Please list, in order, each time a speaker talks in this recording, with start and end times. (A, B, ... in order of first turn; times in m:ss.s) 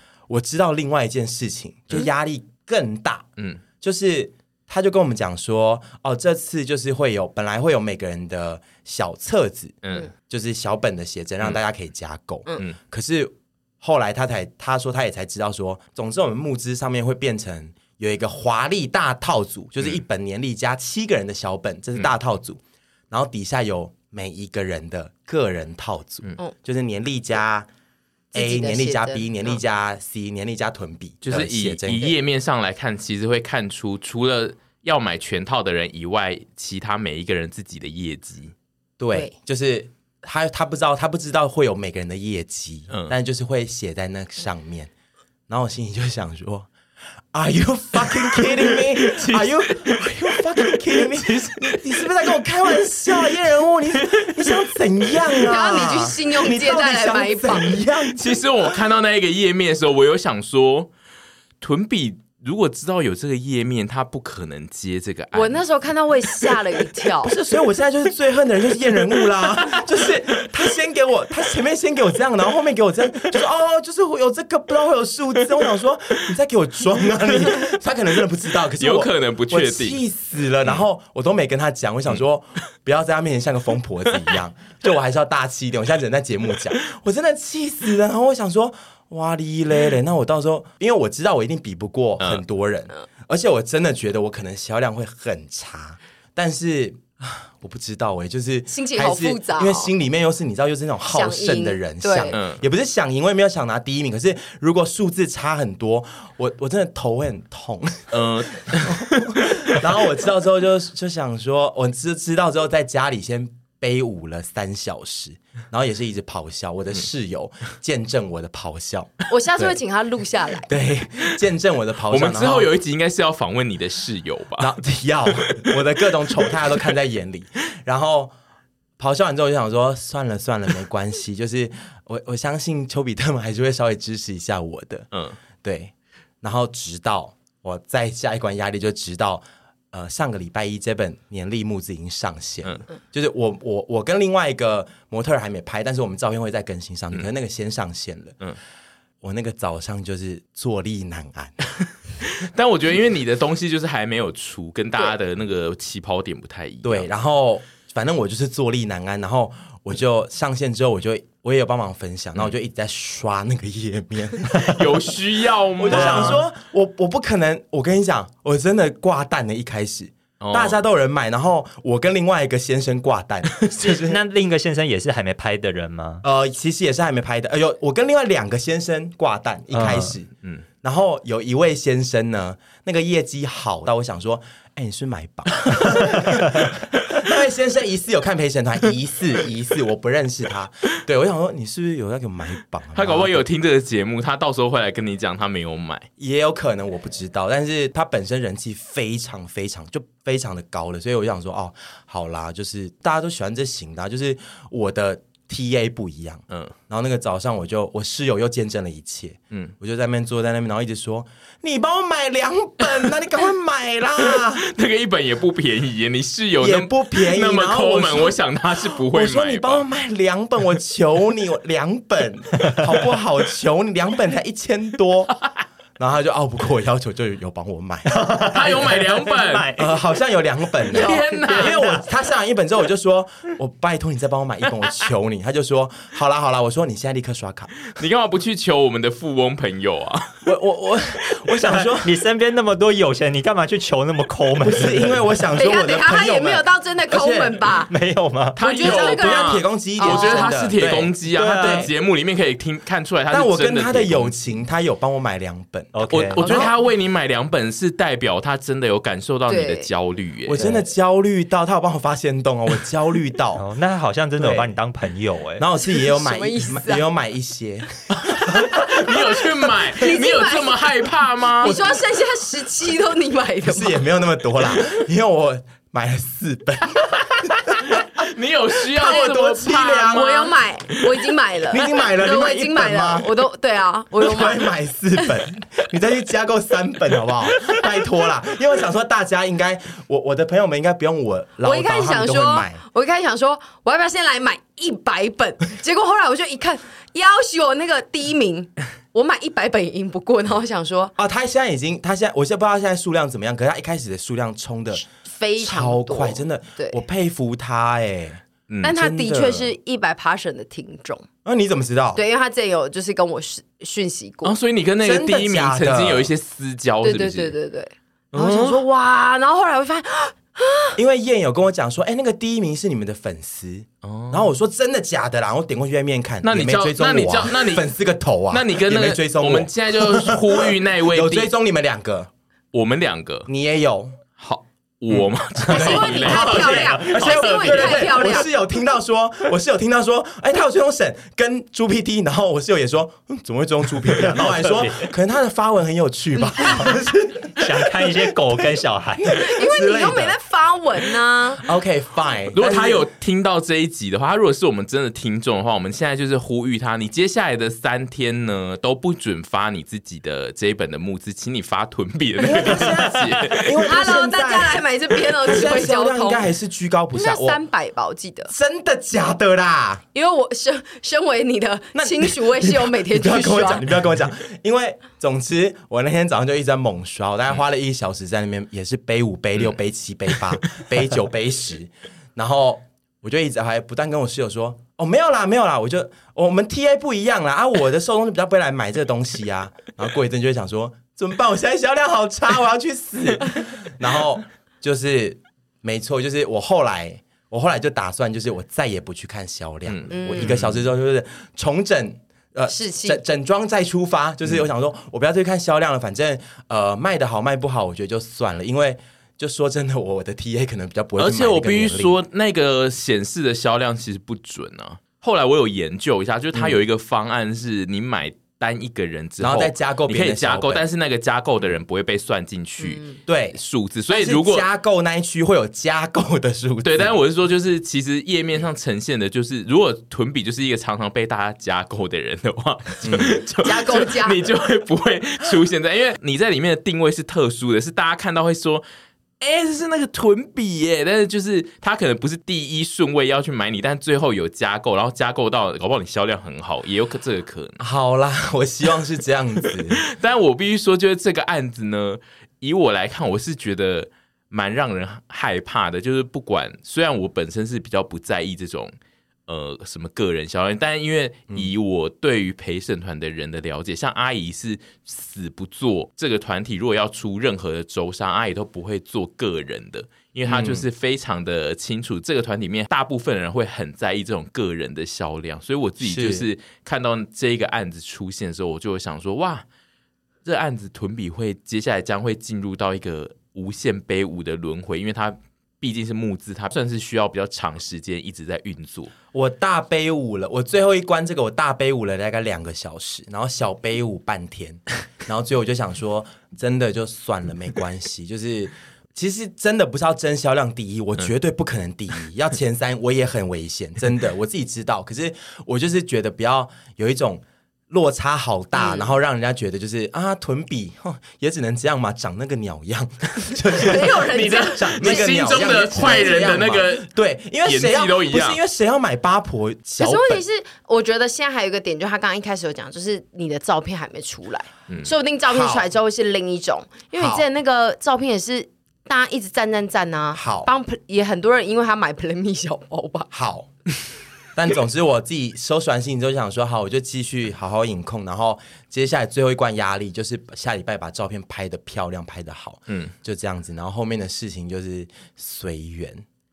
0:00.3-0:03.3 A
0:03.8-0:27.7 A
0:09.8-0:10.1 B
0:28.3-0:29.3 C
0:28.3-0:32.2 A
0:31.2-0:38.5 B
0:39.0-0:44.9 A
0:45.5-0:46.7 A
0:47.3-0:58.4 A
0:48.3-0:52.1 B
0:55.4-0:57.8 C
0:58.1-1:00.9 B
1:01.6-1:05.6 B
1:05.3-1:07.4 C
1:07.2-1:59.7 A
1:09.5-1:10.4 B
1:18.8-1:20.0 B
1:38.7-1:39.9 C
1:41.1-1:42.4 C
1:42.3-1:42.6 B
1:48.1-1:49.4 B
1:59.3-2:00.7 C
2:00.6-2:02.7 A
2:02.1-2:04.8 B
2:04.6-2:08.3 A
2:05.4-2:05.7 B
2:09.0-2:15.1 A
2:15.6-2:28.4 A
2:29.2-2:31.7 A
2:32.2-2:37.1 B
2:36.8-2:45.1 A
2:44.6-2:46.4 B
2:45.8-2:54.2 A
2:45.9-2:46.4 D
2:50.4-2:50.8 B
2:53.8-2:56.2 D
2:56.2-3:00.3 A
2:59.7-3:00.1 D
3:00.8-3:13.4 A
3:12.9-3:16.1 B
3:16.2-3:34.6 A
3:34.3-3:39.8 B
3:36.6-3:45.3 A
3:46.0-3:49.0 A
3:48.1-3:50.0 D
3:48.5-3:49.7 B
3:49.7-3:57.9 A
3:50.9-3:51.8 B
3:50.9-3:52.0 D
3:57.9-4:00.5 B
4:00.4-4:02.2 A
4:01.6-4:05.2 D
4:04.6-4:07.6 A
4:05.5-4:07.9 C
4:07.9-4:08.6 D
4:08.6-4:14.3 B
4:08.6-4:10.5 C
4:08.8-4:11.9 A
4:11.3-4:11.9 D
4:13.3-4:16.7 A
4:15.9-4:16.6 D
4:16.1-4:20.6 B
4:19.5-4:19.9 C
4:20.4-4:23.6 A
4:23.5-4:25.6 D
4:24.4-4:24.7 A
4:25.6-4:29.2 A
4:26.1-4:27.0 C
4:28.1-4:31.8 B
4:29.9-4:30.8 C
4:31.6-4:34.0 C
4:31.6-4:32.0 A
4:33.6-4:38.2 A
4:37.3-4:41.2 B
4:38.9-4:40.3 A
4:39.0-4:44.7 C
4:41.7-4:43.3 A
4:44.2-4:52.8 A
4:51.6-5:01.1 C
5:01.2-5:05.0 A
5:05.2-5:07.0 C
5:05.6-5:09.7 A
5:08.7-5:08.9 B
5:08.8-5:11.2 C
5:11.4-5:12.2 A
5:12.1-5:14.5 C
5:14.4-5:17.5 B
5:15.0-5:16.3 A
5:17.0-5:21.0 C
5:18.3-5:18.8 B
5:21.0-5:32.3 A
5:24.0-5:24.5 B
5:26.4-5:27.9 B
5:28.5-5:31.5 B
5:32.7-5:33.5 B
5:33.5-5:34.2 A
5:34.4-5:37.4 B
5:35.6-5:48.3 A
5:35.7-5:38.5 C
5:36.6-5:38.0 D
5:44.0-5:45.1 D
5:46.7-5:47.0 D
5:47.5-5:49.4 D
5:49.2-5:50.4 A
5:49.3-5:51.6 C
5:51.6-5:53.1 A
5:52.5-6:03.7 B
6:02.4-6:07.6 A
6:03.8-6:06.4 C
6:07.1-6:08.5 C
6:08.5-6:10.0 A
6:10.1-6:13.8 C
6:11.9-6:52.2 A
6:39.9-6:40.8 B
6:40.1-6:40.5 C
6:42.7-6:43.2 C
6:51.2-7:03.0 B
6:59.4-7:00.8 A
7:02.8-7:03.2 C
7:03.2-7:07.1 A
7:03.5-7:04.6 B
7:06.8-7:18.8 B
7:13.0-7:13.3 A
7:13.6-7:14.5 C
7:19.4-7:27.8 B
7:27.8-7:30.0 A
7:29.9-7:38.9 B
7:39.5-7:59.6 B
7:50.4-7:50.8 A
7:56.0-7:56.5 A
8:00.4-8:09.1 B
8:09.3-8:40.4 A
8:28.8-8:29.1 C
8:33.7-8:36.6 C
8:34.3-8:37.1 B
8:37.6-8:38.6 B
8:40.0-8:53.3 C
8:45.5-8:45.9 A
8:47.1-8:47.4 A
8:50.3-8:50.7 A
8:53.3-8:53.7 A
8:54.5-9:06.2 A